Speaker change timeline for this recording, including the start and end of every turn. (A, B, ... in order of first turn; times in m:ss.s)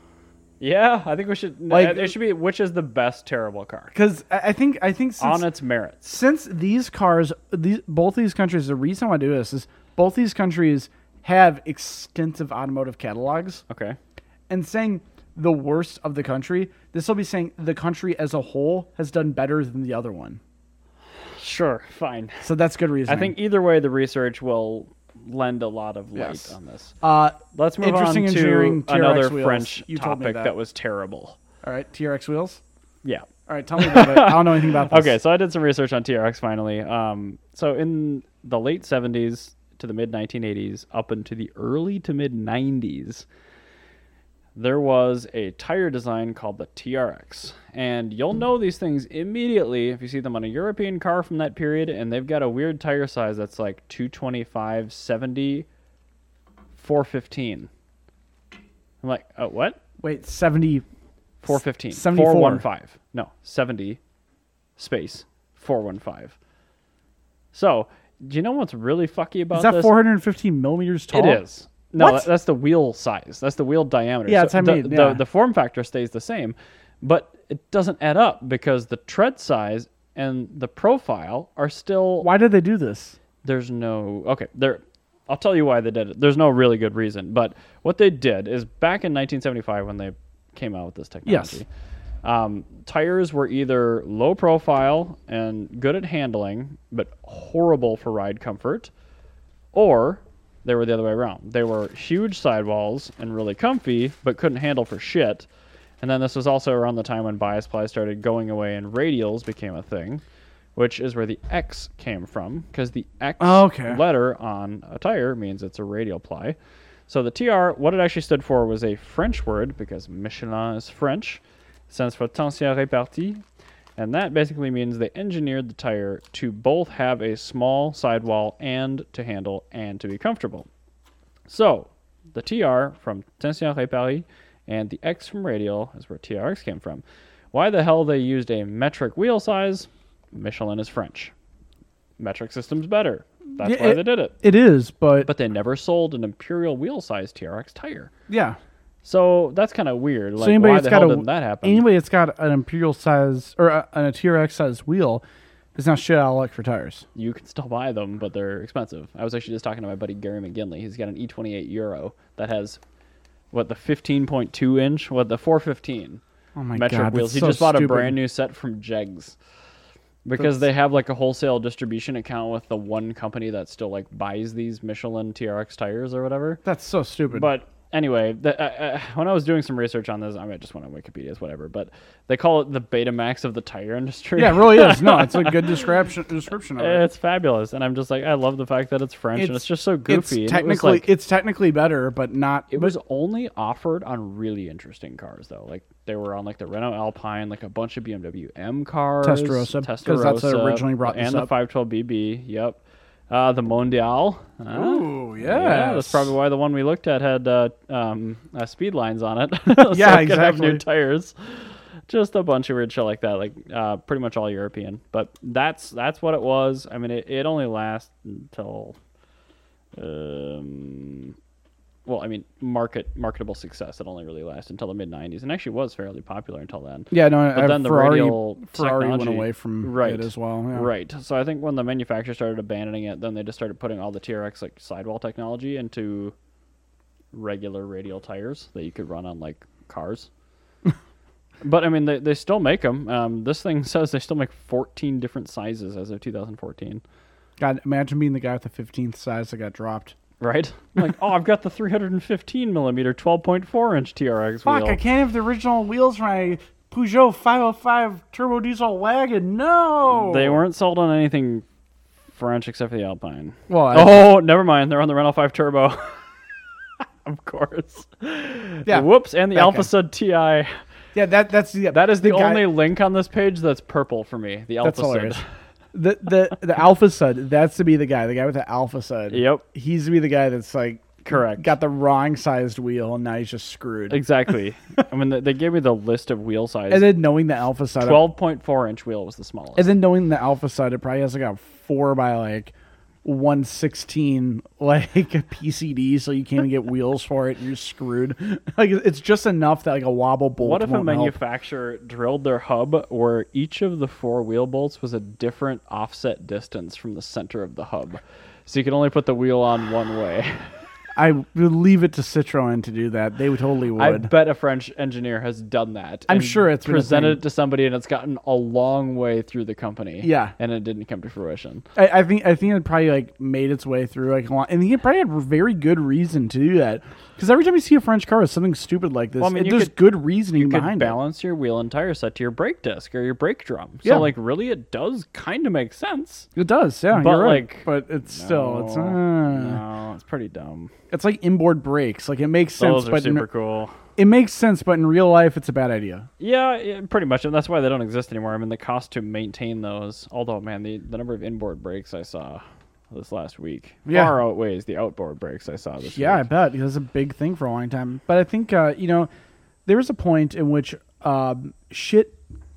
0:00.6-0:03.9 A
0:01.7-0:02.1 B
0:03.9-0:05.5 B
0:05.2-0:06.1 A
0:06.0-0:13.6 B
0:13.7-0:14.0 A
0:14.5-0:20.4 B
0:21.4-0:22.5 A
0:22.4-0:23.3 B
0:23.1-0:31.4 A
0:26.1-0:30.5 B
0:31.6-0:32.6 B
0:33.0-0:43.2 A
0:33.5-0:35.2 B
0:44.5-0:55.7 A
0:56.7-0:57.7 A
0:59.0-0:59.8 A
1:00.0-1:00.8 B
1:01.4-1:04.0 A
1:01.5-1:02.6 B
1:04.8-1:06.3 A
1:07.5-1:10.0 A
1:09.5-1:11.4 B
1:11.1-1:22.3 A
1:12.0-1:12.2 B
1:14.2-1:15.2 B
1:22.2-1:23.2 B
1:23.4-1:31.7 A
1:31.2-1:31.6 B
1:32.2-1:38.9 A
1:39.7-1:45.5 A
1:46.0-1:50.2 A
1:50.8-1:56.6 A
1:53.4-1:54.0 B
1:57.1-2:03.4 A
2:04.0-2:10.7 A
2:11.5-2:21.3 A
2:22.2-2:24.4 A
2:23.6-2:25.3 B
2:25.2-2:28.1 A
2:28.3-2:28.6 B
2:29.0-2:31.8 A
2:30.4-2:35.2 B
2:35.7-2:37.0 B
2:37.1-2:42.8 A
2:43.5-2:46.2 A
2:46.5-2:48.2 B
2:46.7-2:49.3 A
2:50.2-2:56.6 A
2:50.4-2:50.6 B
2:56.6-2:57.5 B
2:57.3-3:05.6 A
3:04.4-3:07.0 B
3:06.8-3:11.1 A
3:09.3-3:12.9 B
3:12.7-3:39.0 A
3:19.2-3:21.5 B
3:24.7-3:26.3 B
3:29.7-3:30.8 B
3:39.9-3:41.4 A
3:42.0-3:56.3 A
3:47.1-3:50.9 B
3:57.3-4:00.3 A
4:01.6-4:07.0 A
4:07.6-4:10.1 B
4:10.4-4:15.0 A
4:14.6-4:20.6 B
4:20.1-4:21.6 A
4:22.3-4:26.2 A
4:23.7-4:24.2 B
4:27.2-4:30.8 A
4:28.8-4:29.9 B
4:31.1-4:32.7 B
4:31.9-4:35.5 A
4:34.8-4:35.4 B
4:35.9-4:44.2 B
4:39.3-4:39.6 A
4:41.2-4:41.7 A
4:44.1-4:47.2 A
4:46.9-4:48.3 B
4:48.0-4:49.9 A
4:49.8-4:52.7 B
4:53.2-5:01.4 B
5:00.6-5:10.7 A
5:11.1-5:14.3 B
5:14.0-5:21.8 A
5:16.3-5:17.4 B
5:20.2-5:20.5 B
5:21.9-5:31.2 B
5:29.4-5:36.5 A
5:34.0-5:34.3 B
5:36.6-5:39.8 B
5:37.1-5:40.9 A
5:41.1-5:43.4 B
5:42.8-5:44.0 A
5:44.2-5:46.3 B
5:46.4-5:56.4 A
5:54.1-5:54.4 B
5:56.1-5:59.3 B
5:59.8-6:02.4 B